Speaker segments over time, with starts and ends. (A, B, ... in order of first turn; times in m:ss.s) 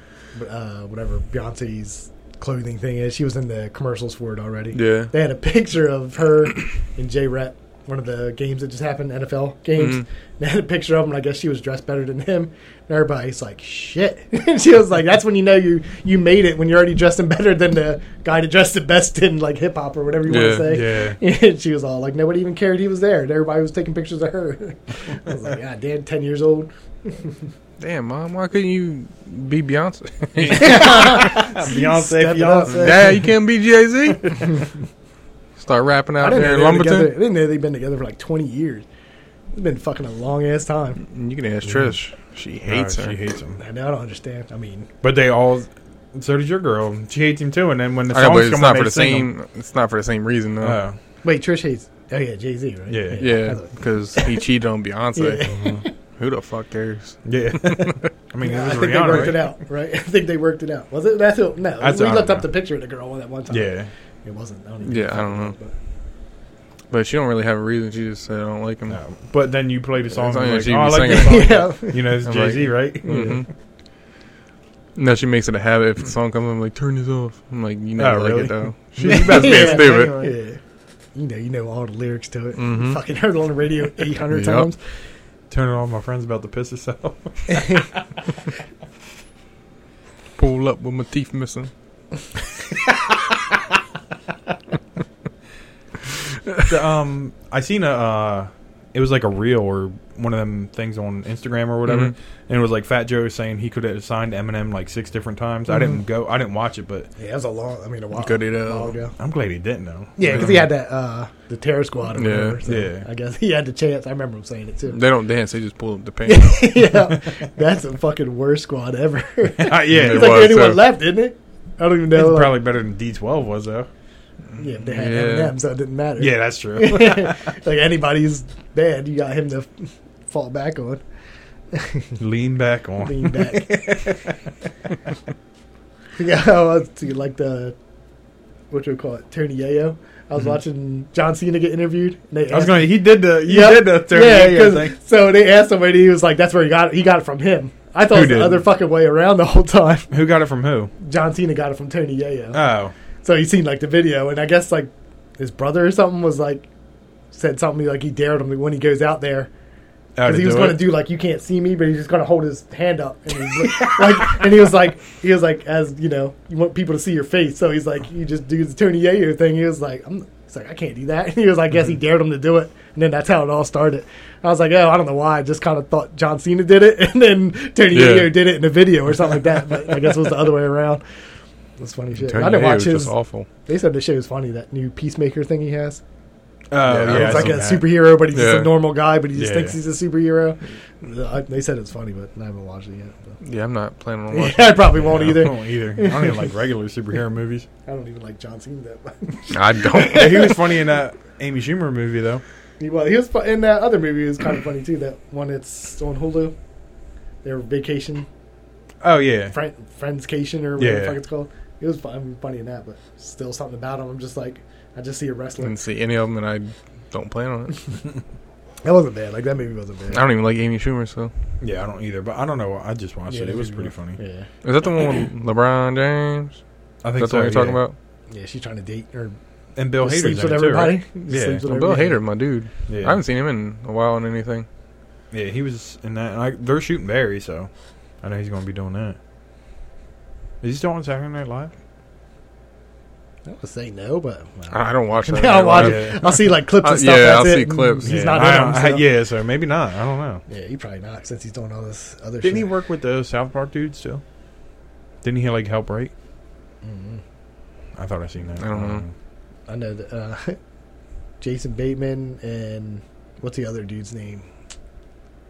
0:00.3-0:27.4 A
0:04.7-0:05.1 B
0:09.8-0:10.0 B
0:20.3-0:20.7 B
0:20.6-0:21.2 C
0:27.8-0:31.2 B
0:30.4-0:33.3 C
0:30.5-0:33.2 A
0:32.7-0:34.5 B
0:35.6-0:37.1 B
0:36.2-0:38.8 A
0:39.5-0:41.0 A
0:41.0-0:43.2 B
0:41.6-0:41.9 C
0:42.6-0:43.6 C
0:43.6-0:44.9 A
0:45.0-0:49.3 C
0:48.1-0:50.8 B
0:50.6-0:51.0 C
0:51.2-0:54.4 A
0:52.9-0:53.3 C
0:53.2-0:58.0 B
0:55.1-0:55.9 A
0:55.5-0:55.8 C
0:57.2-0:59.5 C
0:58.4-1:05.7 A
1:01.8-1:02.5 C
1:03.5-1:03.9 C
1:04.8-1:05.6 B
1:06.9-1:09.0 B
1:08.9-1:13.4 C
1:10.1-1:13.5 B
1:11.1-1:12.2 A
1:13.0-1:13.4 A
1:14.9-1:20.3 B
1:18.0-1:20.3 C
1:19.0-1:20.6 A
1:21.1-1:24.8 A
1:22.6-1:23.0 B
1:24.3-1:24.7 B
1:25.5-1:27.9 C
1:30.4-1:31.7 B
1:36.6-1:47.1 C
1:41.8-1:42.1 B
1:45.7-1:46.0 A
1:47.2-1:49.1 A
1:48.1-1:48.9 B
1:49.2-1:50.7 C
1:50.2-1:55.0 A
1:52.1-1:52.6 B
1:52.6-1:53.0 C
1:54.9-1:56.8 B
1:56.2-2:02.6 A
1:59.6-2:00.5 C
1:59.9-2:00.8 B
2:02.1-2:03.9 C
2:04.6-2:11.0 A
2:04.8-2:05.5 B
2:06.2-2:07.5 C
2:11.7-2:12.2 A
2:12.2-2:14.3 C
2:13.0-2:14.1 A
2:16.2-2:17.8 A
2:18.7-2:30.1 A
2:22.5-2:24.9 C
2:28.1-2:28.6 C
2:30.1-2:30.9 C
2:31.0-2:32.6 A
2:32.5-2:32.9 C
2:33.2-2:36.7 A
2:37.3-2:39.5 A
2:40.2-2:40.9 C
2:40.2-3:01.0 A
2:57.9-2:58.4 B
3:01.8-3:03.1 A
3:02.2-3:03.5 B
3:03.6-3:06.0 A
3:06.7-3:07.9 C
3:06.8-3:07.7 B
3:07.0-3:13.4 A
3:08.3-3:08.7 B
3:09.3-3:09.8 C
3:13.4-3:15.0 B
3:14.3-3:16.5 A
3:15.0-3:17.7 C
3:17.8-3:20.6 A
3:19.5-3:20.5 B
3:20.0-3:22.4 C
3:22.8-3:26.6 A
3:27.4-3:28.3 A
3:29.0-3:29.6 C
3:29.5-3:35.8 A
3:30.8-3:31.2 C
3:35.6-3:37.8 B
3:38.8-3:40.2 A
3:40.1-3:41.3 B
3:41.6-3:44.2 C
3:43.3-3:44.5 A
3:44.6-3:46.6 B
3:47.0-3:47.8 C
3:47.2-3:48.0 B
3:48.3-3:49.4 A
3:49.8-3:51.6 C
3:50.0-3:52.2 A
3:51.6-3:54.7 B
3:52.9-3:53.2 C
3:55.3-3:57.7 C
3:58.2-3:59.2 C
4:00.6-4:01.7 C
4:03.4-4:09.0 A
4:04.7-4:08.1 B
4:05.8-4:06.3 C
4:08.0-4:10.4 C
4:10.5-4:12.7 A
4:12.4-4:14.2 C
4:15.2-4:16.1 C
4:16.8-4:17.2 A
4:17.9-4:19.1 C
4:18.6-4:19.0 B
4:19.7-4:20.6 A
4:21.4-4:24.5 A